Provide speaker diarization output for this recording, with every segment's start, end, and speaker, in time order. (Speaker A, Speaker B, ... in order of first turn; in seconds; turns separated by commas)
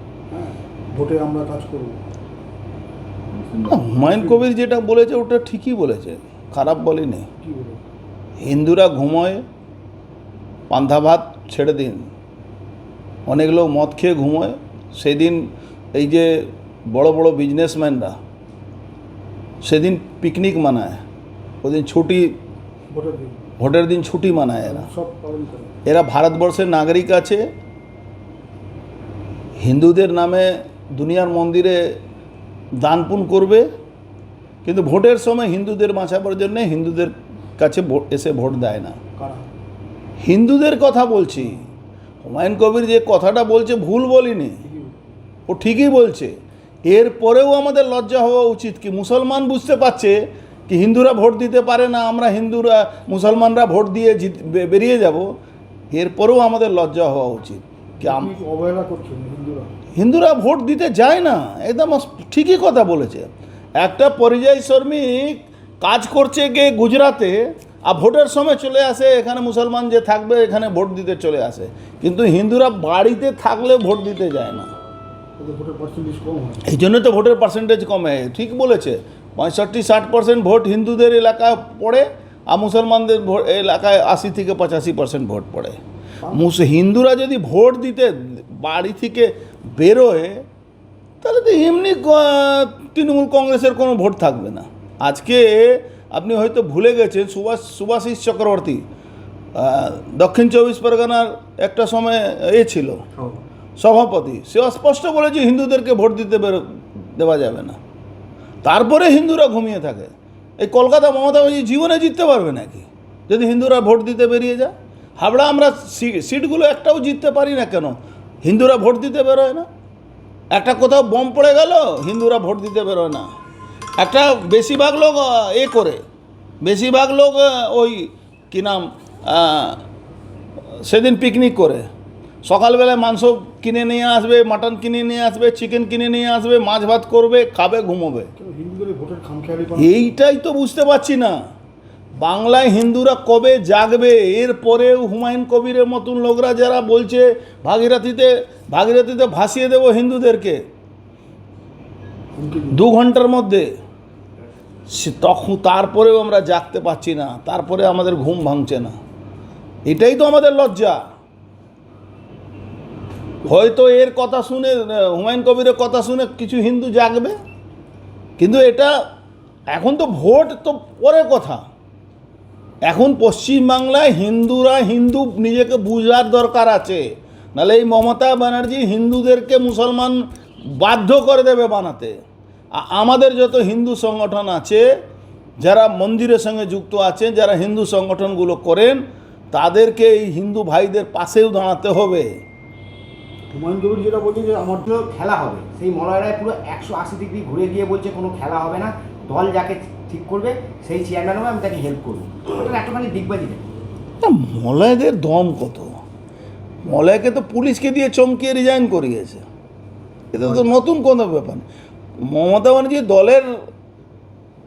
Speaker A: 0.3-2.0, Speaker B: 3.6-7.3, Speaker A: 3.9-4.4, Speaker A: 7.4-7.8, Speaker B: 8.4-9.4, Speaker B: 10.7-12.1, Speaker B: 13.3-18.2, Speaker B: 19.6-21.0, Speaker B: 21.6-22.4, Speaker A: 22.9-23.4, Speaker B: 23.6-24.9, Speaker A: 24.6-25.8, Speaker B: 25.9-27.5, Speaker B: 29.6-32.0, Speaker B: 32.8-33.7, Speaker B: 34.6-39.0, Speaker A: 39.2-39.5, Speaker B: 40.2-41.7, Speaker B: 42.2-44.6, Speaker A: 44.6-45.0, Speaker B: 45.5-55.4, Speaker B: 55.9-58.3, Speaker A: 58.0-59.8, Speaker B: 60.0-74.7, Speaker A: 75.4-76.7, Speaker B: 76.7-85.8, Speaker B: 86.3-90.5, Speaker B: 91.2-98.9, Speaker B: 99.5-103.0, Speaker B: 103.8-107.8, Speaker B: 108.6-119.7, Speaker B: 120.5-123.3, Speaker B: 124.0-126.0, Speaker B: 126.6-129.8, Speaker B: 130.8-131.9, Speaker B: 132.4-138.3, Speaker A: 138.3-140.1, Speaker B: 139.8-141.4, Speaker B: 142.2-150.7, Speaker A: 152.3-152.8, Speaker B: 152.7-153.7, Speaker B: 154.9-158.9, Speaker B: 159.9-161.1, Speaker B: 163.4-167.4, Speaker B: 168.4-169.1, Speaker B: 169.7-171.7, Speaker B: 172.8-182.2, Speaker B: 182.7-185.0, Speaker B: 185.6-192.4, Speaker A: 193.5-194.9, Speaker C: 194.9-203.8, Speaker B: 204.2-206.0, Speaker B: 206.8-209.4, Speaker B: 210.3-211.7, Speaker B: 212.2-213.7